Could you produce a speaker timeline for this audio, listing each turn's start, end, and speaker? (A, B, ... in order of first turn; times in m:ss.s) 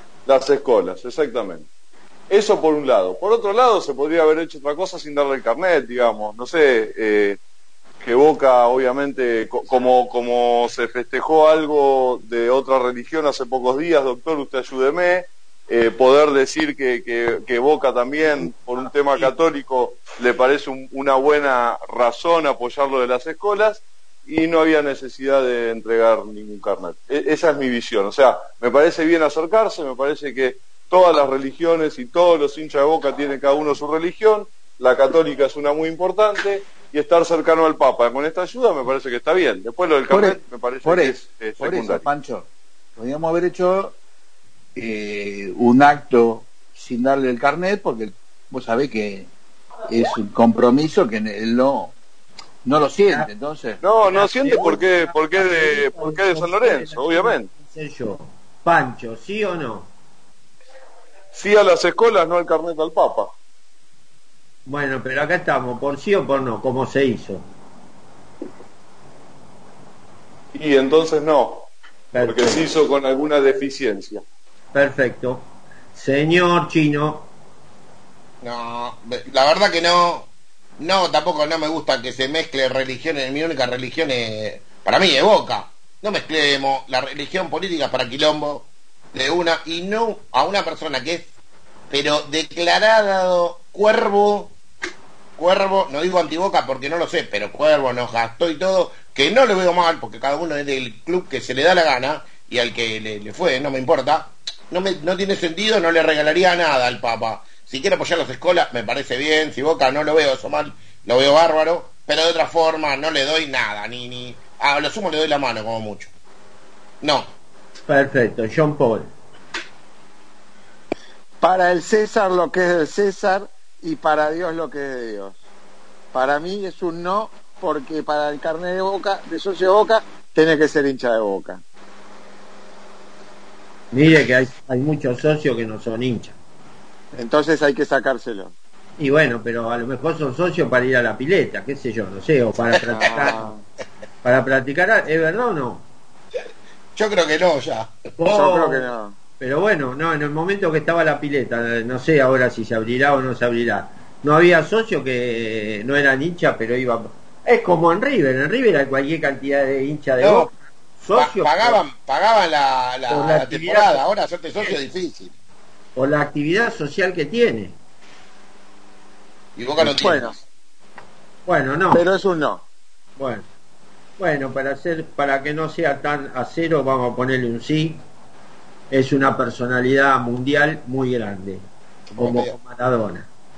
0:00.3-0:01.7 A
0:02.3-0:07.4 A
0:08.0-0:42.1 A
0:40.1-0:44.0 B
0:44.8-0:49.3 B
0:49.9-0:51.9 B
0:52.6-0:53.8 B
0:53.8-0:57.5 A
0:54.1-0:59.9 C
1:01.3-1:03.3 A
1:04.7-1:07.5 C
1:10.5-1:14.2 A
1:12.1-1:12.7 C
1:14.7-1:17.3 C
1:18.4-1:31.3 D
1:31.9-1:34.5 D
1:35.4-1:56.1 D
1:57.0-1:57.3 D
1:57.9-1:59.1 C
2:01.4-2:05.4 E
2:06.1-2:11.6 E
2:13.9-2:16.4 C
2:17.1-2:18.5 E
2:19.0-2:23.5 C
2:23.0-2:23.6 E
2:24.2-2:25.9 C
2:27.0-2:27.9 D
2:28.2-2:41.8 C
2:28.3-2:29.2 E
2:40.2-2:40.5 D
2:41.2-2:45.3 D
2:43.1-2:44.0 C
2:46.0-2:47.8 C
2:49.6-2:50.4 D
2:49.8-2:50.4 E
2:51.5-2:52.0 C
2:51.9-2:52.6 E
2:53.2-2:53.5 C
2:54.2-2:58.0 C
2:58.9-3:01.6 C
3:02.1-3:02.6 D
3:02.2-3:03.3 C